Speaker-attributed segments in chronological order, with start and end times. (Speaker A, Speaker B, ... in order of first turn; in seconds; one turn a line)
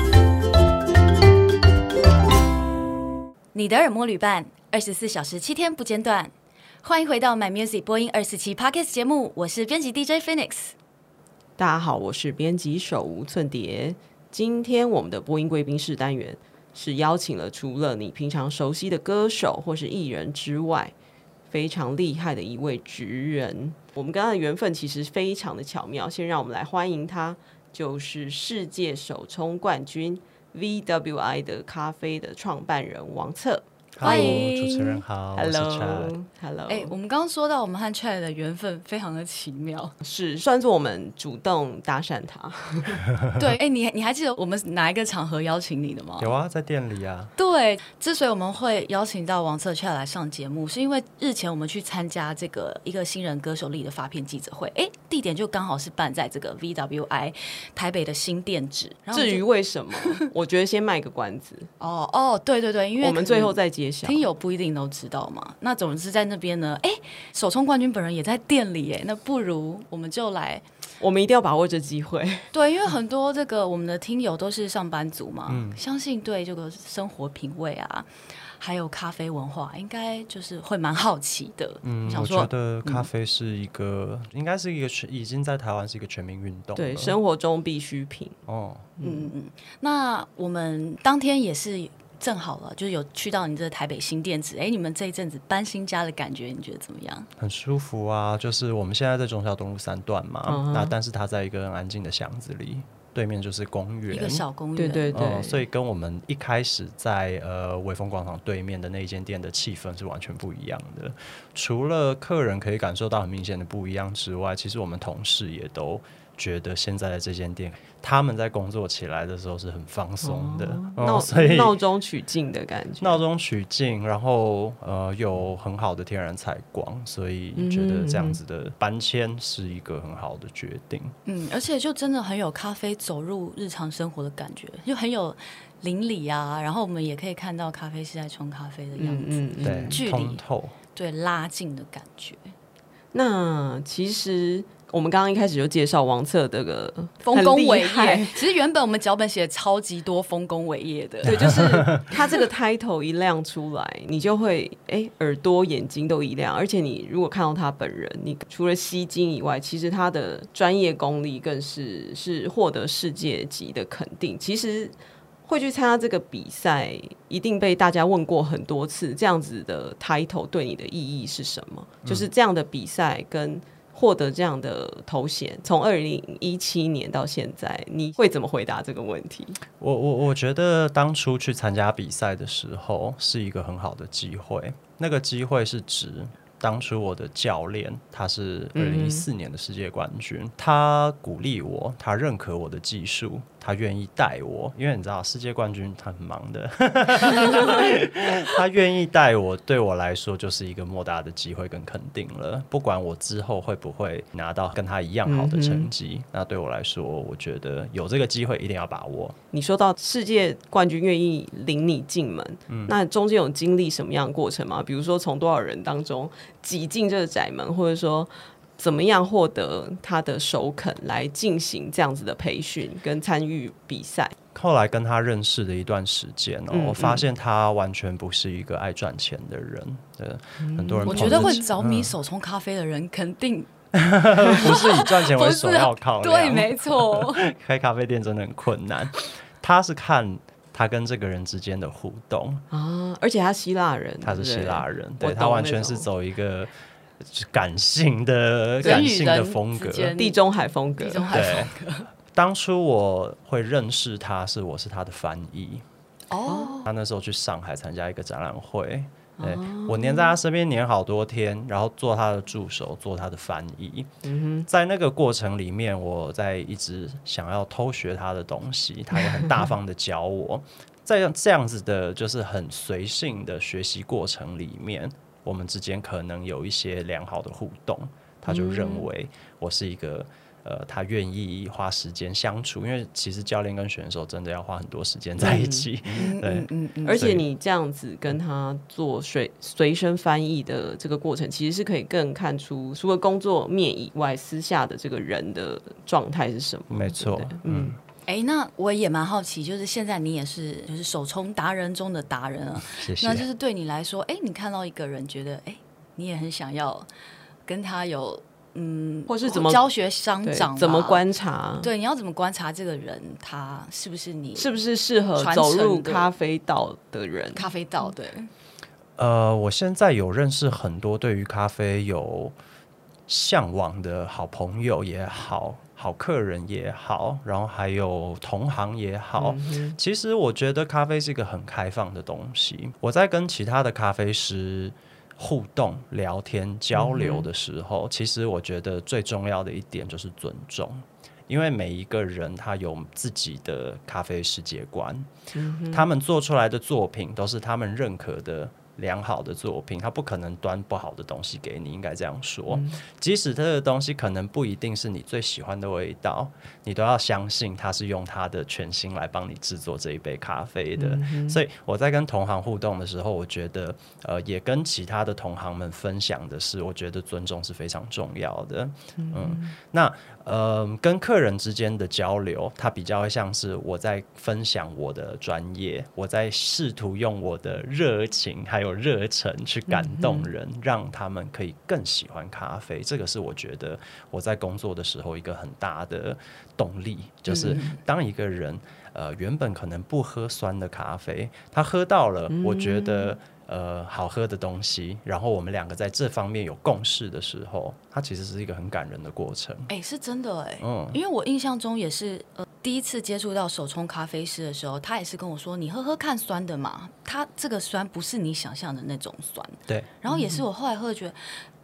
Speaker A: 3.5-6.3
Speaker A: 6.8-10.7
Speaker B: 11.6-20.9
Speaker B: 21.5-34.5
Speaker C: 34.0-36.1
Speaker A: 34.0-35.0
Speaker B: 35.4-37.0
Speaker A: 36.7-40.0
Speaker B: 40.0-43.0
Speaker A: 43.4-46.3
Speaker C: 46.2-47.3
Speaker A: 47.4-59.4
Speaker B: 59.1-61.7
Speaker A: 60.0-60.3
Speaker A: 61.8-70.7
Speaker B: 63.0-64.3
Speaker B: 71.0-72.5
Speaker A: 72.5-83.1
Speaker C: 75.5-75.8
Speaker C: 81.8-87.2
Speaker B: 86.8-88.4
Speaker C: 88.5-88.9
Speaker B: 89.0-89.3
Speaker A: 89.0-97.3
Speaker C: 97.4-104.4
Speaker B: 100.5-100.9
Speaker A: 104.1-105.5
Speaker B: 104.8-105.6
Speaker C: 105.1-121.8
Speaker B: 120.2-123.2
Speaker C: 123.0-131.2
Speaker B: 127.6-128.4
Speaker A: 131.3-140.4
Speaker B: 139.0-140.0
Speaker C: 139.6-140.8
Speaker A: 140.9-142.5
Speaker B: 143.1-148.4
Speaker A: 147.2-152.4
Speaker B: 151.2-179.6
Speaker C: 151.3-152.1
Speaker C: 179.8-209.4
Speaker B: 188.8-189.3
Speaker B: 205.3-205.9
Speaker B: 209.5-224.3
Speaker C: 212.7-212.9
Speaker C: 224.6-232.2
Speaker B: 226.7-227.3
Speaker B: 230.6-231.7
Speaker A: 231.1-233.7
Speaker C: 233.9-242.6
Speaker A: 234.4-237.5
Speaker B: 242.7-246.1
Speaker C: 244.2-250.1
Speaker A: 248.8-250.4
Speaker B: 248.8-249.2
Speaker B: 250.2-251.5
Speaker A: 251.0-252.1
Speaker C: 251.3-251.7
Speaker C: 252.3-255.8
Speaker A: 256.3-256.9
Speaker B: 256.5-256.7
Speaker C: 256.9-264.1
Speaker B: 259.4-260.4
Speaker B: 264.2-264.7
Speaker C: 264.7-287.4
Speaker B: 269.3-269.6
Speaker B: 278.5-279.1
Speaker B: 285.4-285.9
Speaker A: 286.2-287.3
Speaker B: 287.0-298.0
Speaker C: 296.9-298.0
Speaker A: 298.3-307.1
Speaker C: 302.9-303.5
Speaker A: 307.7-311.2
Speaker B: 309.3-309.9
Speaker B: 310.4-311.9
Speaker A: 311.8-314.8
Speaker B: 314.6-317.6
Speaker A: 315.4-316.3
Speaker A: 317.5-318.5
Speaker C: 319.2-322.6
Speaker C: 323.3-345.3
Speaker B: 329.4-330.0
Speaker B: 336.9-337.5
Speaker B: 345.5-346.1
Speaker C: 345.9-399.9
Speaker B: 352.7-353.0
Speaker B: 361.0-361.6
Speaker B: 369.2-369.8
Speaker B: 379.9-380.5
Speaker A: 387.5-388.0
Speaker B: 392.5-393.4
Speaker A: 399.9-411.4
Speaker C: 400.8-401.2
Speaker B: 410.3-410.6